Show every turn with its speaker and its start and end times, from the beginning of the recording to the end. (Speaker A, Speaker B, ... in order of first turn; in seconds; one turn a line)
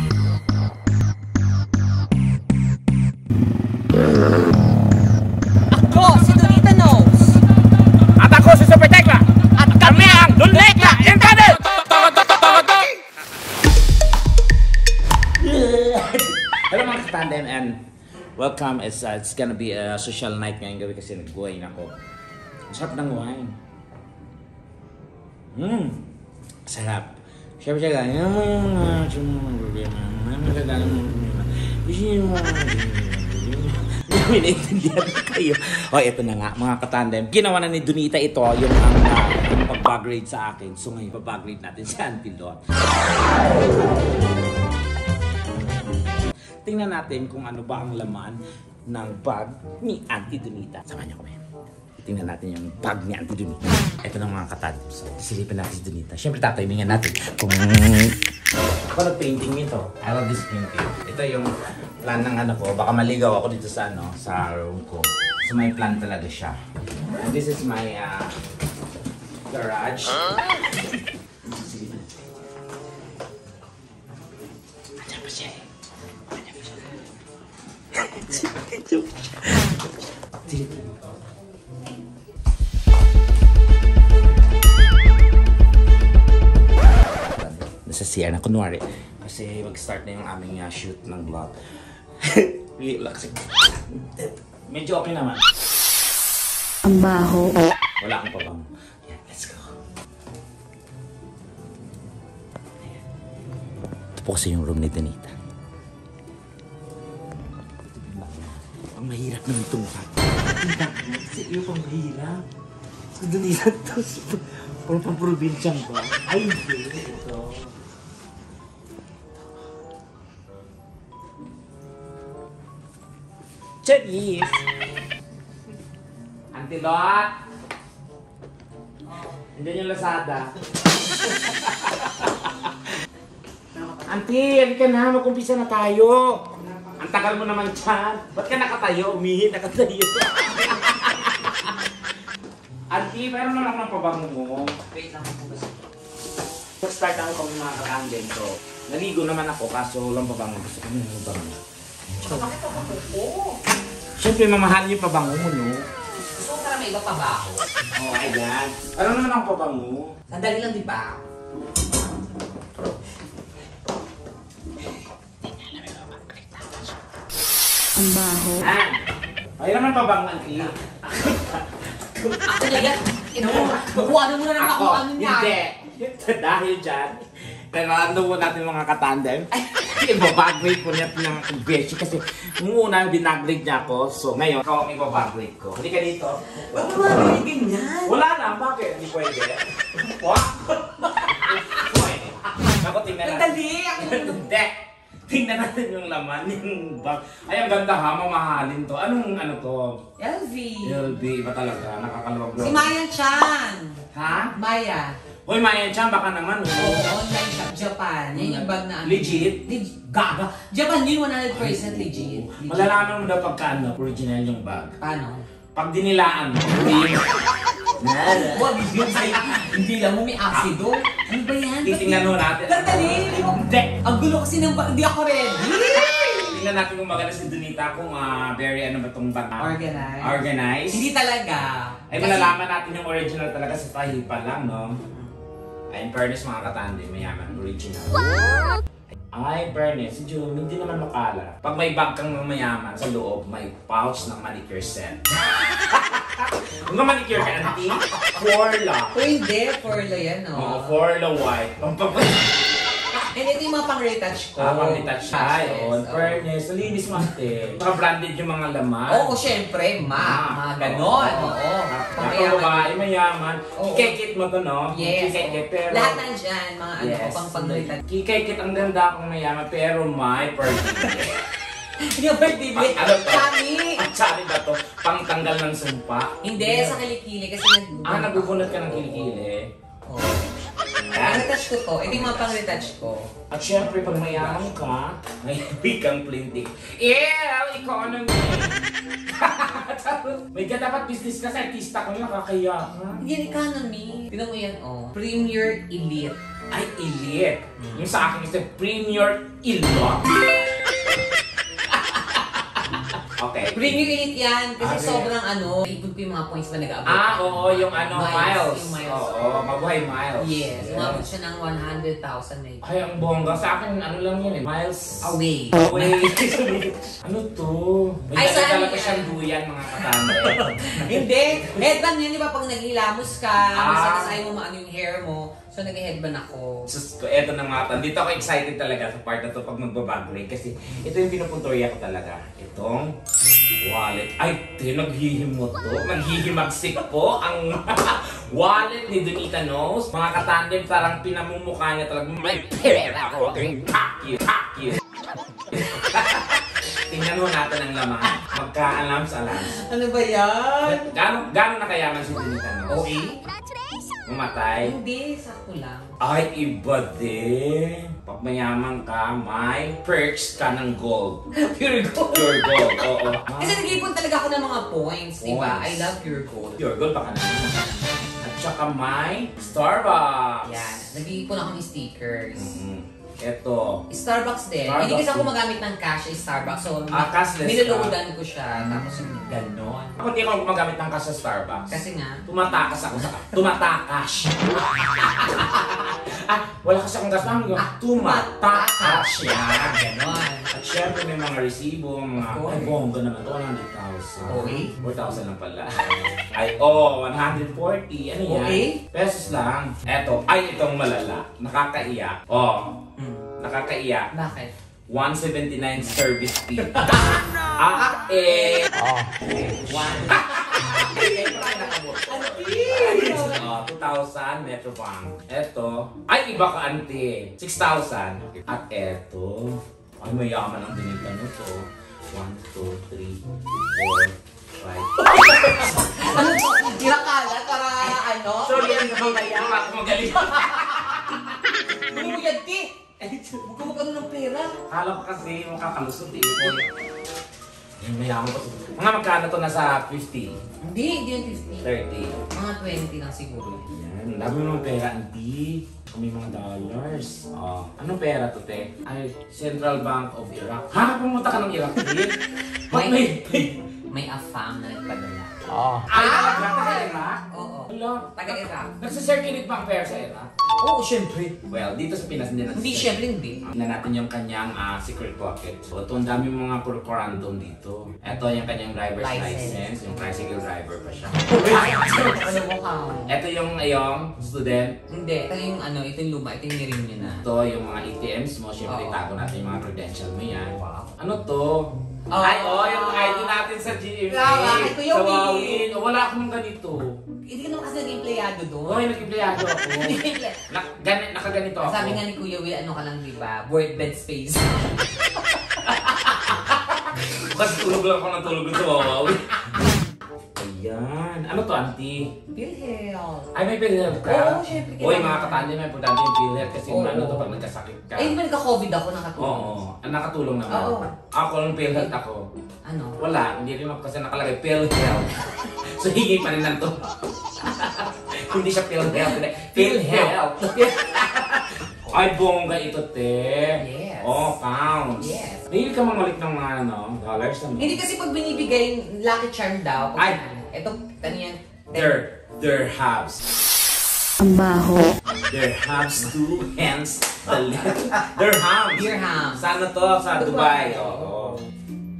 Speaker A: 5.7-7.4
Speaker B: 8.2-12.9
Speaker A: 9.6-11.1
Speaker B: 15.4-17.8
Speaker B: 18.4-21.9
Speaker B: 22.7-23.6
Speaker B: 25.5-26.0
Speaker B: 26.7-44.0
Speaker B: 46.6-51.4
Speaker B: 52.0-58.2
Speaker B: 58.9-61.5
Speaker B: 62.0-66.6
Speaker B: 67.1-68.3
Speaker B: 69.5-72.3
Speaker B: 75.0-75.7
Speaker B: 76.3-77.0
Speaker B: 77.9-81.0
Speaker B: 86.8-91.6
Speaker B: 92.2-95.4
Speaker C: 96.8-97.6
Speaker B: 98.0-99.8
Speaker B: 104.2-105.4
Speaker B: 107.9-112.4
Speaker B: 113.2-117.7
Speaker B: 123.8-124.6
Speaker B: 126.5-127.3
Speaker B: 129.6-132.8
Speaker B: 134.1-141.8
Speaker A: 136.7-137.4
Speaker B: 142.9-144.8
Speaker A: 144.9-145.8
Speaker B: 146.8-151.6
Speaker B: 152.2-152.5
Speaker A: 152.2-153.6
Speaker B: 154.2-155.8
Speaker A: 156.3-157.6
Speaker B: 158.0-160.1
Speaker A: 160.3-161.2
Speaker B: 165.4-167.0
Speaker C: 168.0-168.6
Speaker B: 168.5-169.0
Speaker B: 169.6-187.2
Speaker A: 172.4-175.7
Speaker A: 186.6-188.2
Speaker B: 188.1-194.8
Speaker A: 191.2-191.8
Speaker A: 193.2-194.4
Speaker B: 195.3-200.0
Speaker A: 200.2-201.0
Speaker B: 200.8-202.9
Speaker A: 202.6-204.0
Speaker B: 204.1-204.5
Speaker A: 204.5-205.2
Speaker B: 205.5-207.1
Speaker A: 206.8-213.0
Speaker B: 208.3-209.6
Speaker B: 211.5-215.0
Speaker A: 215.0-215.4
Speaker B: 215.8-219.5
Speaker A: 218.2-226.6
Speaker B: 221.8-224.0
Speaker B: 226.2-231.1
Speaker A: 229.6-232.6
Speaker B: 232.1-235.0
Speaker B: 235.9-238.4
Speaker B: 239.3-249.2
Speaker A: 249.1-250.9
Speaker B: 250.5-252.9
Speaker A: 253.2-256.4
Speaker B: 254.6-259.4
Speaker A: 259.1-263.0
Speaker B: 260.1-266.2
Speaker A: 263.8-264.2
Speaker A: 264.9-268.0
Speaker B: 267.0-271.5
Speaker A: 272.0-274.0
Speaker B: 272.7-277.0
Speaker A: 276.4-279.4
Speaker B: 278.1-279.7
Speaker A: 280.1-280.4
Speaker B: 281.1-282.6
Speaker A: 281.1-283.3
Speaker B: 283.5-293.2
Speaker A: 293.2-296.4
Speaker B: 296.7-300.5
Speaker A: 297.8-298.1
Speaker B: 303.4-304.1
Speaker A: 303.7-309.5
Speaker B: 304.8-305.3
Speaker B: 307.1-311.3
Speaker A: 310.4-312.9
Speaker B: 312.8-321.9
Speaker A: 315.2-316.6
Speaker A: 318.4-319.4
Speaker A: 319.9-326.9
Speaker B: 323.8-324.4
Speaker B: 326.9-333.1
Speaker B: 333.8-345.0
Speaker B: 345.7-349.8
Speaker A: 349.5-351.1
Speaker B: 350.8-353.2
Speaker A: 352.9-353.4
Speaker B: 354.3-354.9
Speaker A: 354.8-356.1
Speaker B: 356.2-361.4
Speaker A: 361.6-366.8
Speaker B: 362.3-364.0
Speaker B: 365.4-366.1
Speaker B: 366.8-371.1
Speaker A: 367.8-368.2
Speaker A: 370.6-372.8
Speaker B: 372.6-374.0
Speaker A: 374.1-380.2
Speaker B: 374.8-375.5
Speaker B: 377.1-378.2
Speaker B: 380.2-390.0
Speaker A: 381.9-382.4
Speaker A: 383.2-383.5
Speaker A: 387.8-390.7
Speaker B: 390.7-403.1
Speaker A: 392.4-393.0
Speaker A: 394.5-394.9
Speaker A: 398.5-399.0
Speaker A: 403.2-403.5
Speaker B: 403.6-404.3
Speaker A: 404.3-404.7
Speaker B: 405.1-408.9
Speaker A: 406.9-408.9
Speaker C: 409.0-409.4
Speaker B: 409.6-426.5
Speaker A: 409.6-413.7
Speaker A: 425.2-434.8
Speaker B: 428.6-431.5
Speaker B: 432.1-432.4
Speaker B: 434.9-436.9
Speaker A: 436.5-436.9
Speaker B: 438.0-440.6
Speaker A: 440.8-441.9
Speaker B: 441.8-442.4
Speaker A: 442.5-443.9
Speaker B: 443.9-452.4
Speaker B: 452.9-453.8
Speaker A: 452.9-459.0
Speaker B: 455.7-460.5
Speaker A: 460.8-461.6
Speaker B: 461.7-472.6
Speaker A: 462.8-463.7
Speaker A: 469.2-469.9
Speaker A: 471.4-473.3
Speaker B: 473.3-475.0
Speaker A: 475.1-477.4
Speaker B: 477.3-487.1
Speaker A: 478.9-479.2
Speaker A: 480.8-481.1
Speaker A: 482.3-483.6
Speaker A: 484.3-485.9
Speaker A: 487.5-490.6
Speaker B: 488.9-492.2
Speaker A: 491.8-495.3
Speaker B: 495.9-499.8
Speaker B: 500.6-502.2
Speaker A: 502.6-503.5
Speaker B: 503.5-508.4
Speaker A: 504.2-505.7
Speaker A: 506.9-507.6
Speaker A: 508.2-509.8
Speaker B: 509.4-512.5
Speaker A: 510.7-511.1
Speaker A: 512.9-513.2
Speaker B: 513.2-528.0
Speaker A: 519.1-521.0
Speaker A: 521.9-522.2
Speaker A: 523.8-524.6
Speaker A: 525.2-525.7
Speaker A: 527.8-532.2
Speaker B: 531.9-533.6
Speaker C: 534.4-535.1
Speaker B: 535.5-541.6
Speaker A: 538.9-539.6
Speaker A: 540.3-541.5